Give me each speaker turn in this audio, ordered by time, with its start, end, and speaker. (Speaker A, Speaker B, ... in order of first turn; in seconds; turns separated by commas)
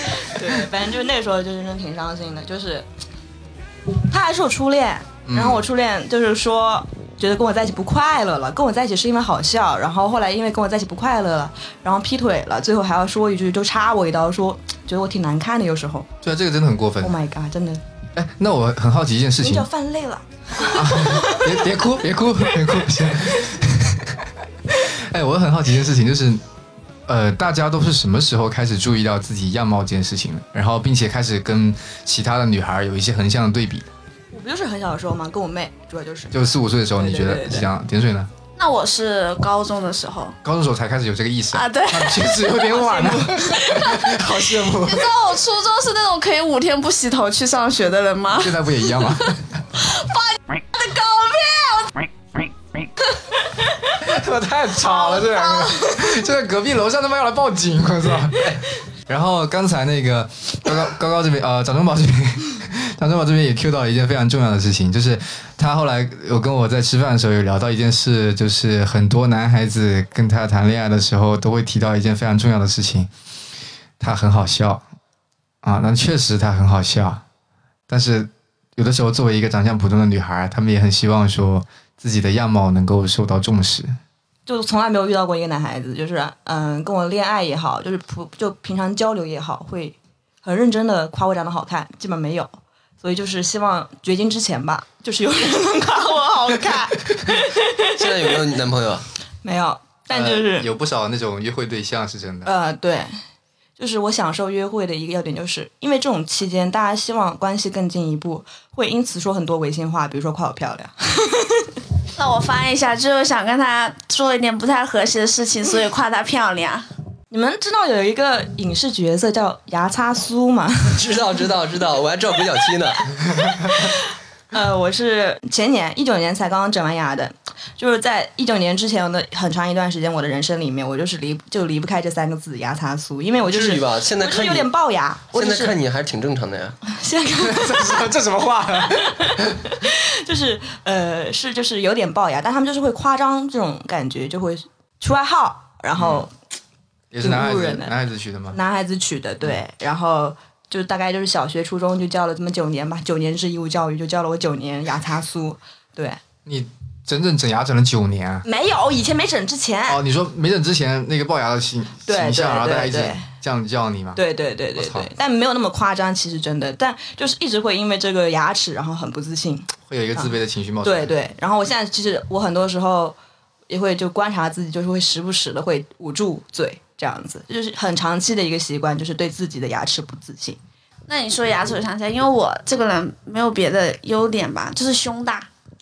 Speaker A: 0.2-2.9, Speaker A: 3.9-16.1, Speaker B: 5.3-5.7, Speaker B: 16.2-17.2, Speaker A: 17.0-17.8, Speaker B: 18.1-19.7, Speaker A: 19.4-21.6, Speaker B: 20.6-26.4, Speaker B: 27.1-33.9, Speaker A: 34.3-36.4, Speaker B: 36.3-38.3, Speaker A: 37.0-37.7, Speaker C: 38.6-40.4, Speaker B: 40.4-45.2, Speaker C: 41.5-42.4, Speaker A: 42.7-43.5, Speaker C: 43.6-44.1, Speaker C: 44.7-48.6, Speaker B: 48.4-49.6, Speaker C: 49.8-51.9, Speaker B: 54.0-73.1, Speaker A: 55.1-55.6, Speaker B: 74.0-74.8, Speaker B: 75.6-77.2, Speaker B: 77.9-83.9, Speaker A: 84.5-98.3, Speaker D: 97.9-99.1, Speaker A: 99.4-100.7, Speaker B: 100.1-102.5, Speaker A: 102.4-103.2, Speaker A: 103.8-111.7, Speaker C: 112.2-116.8, Speaker A: 117.3-121.0, Speaker D: 120.9-123.3, Speaker A: 123.6-124.0, Speaker A: 124.5-135.8, Speaker D: 133.4-134.7, Speaker D: 135.3-136.8, Speaker A: 136.9-138.1, Speaker B: 137.4-139.6, Speaker A: 138.9-146.3, Speaker B: 145.9-146.3, Speaker B: 147.1-148.6, Speaker A: 147.2-147.9, Speaker A: 148.5-156.2, Speaker B: 156.4-158.4, Speaker A: 158.4-160.0, Speaker B: 159.9-164.2, Speaker A: 162.1-163.2, Speaker A: 164.2-170.3, Speaker B: 164.8-165.1, Speaker B: 169.9-171.1, Speaker A: 170.8-173.2, Speaker A: 173.7-180.6, Speaker C: 181.1-185.5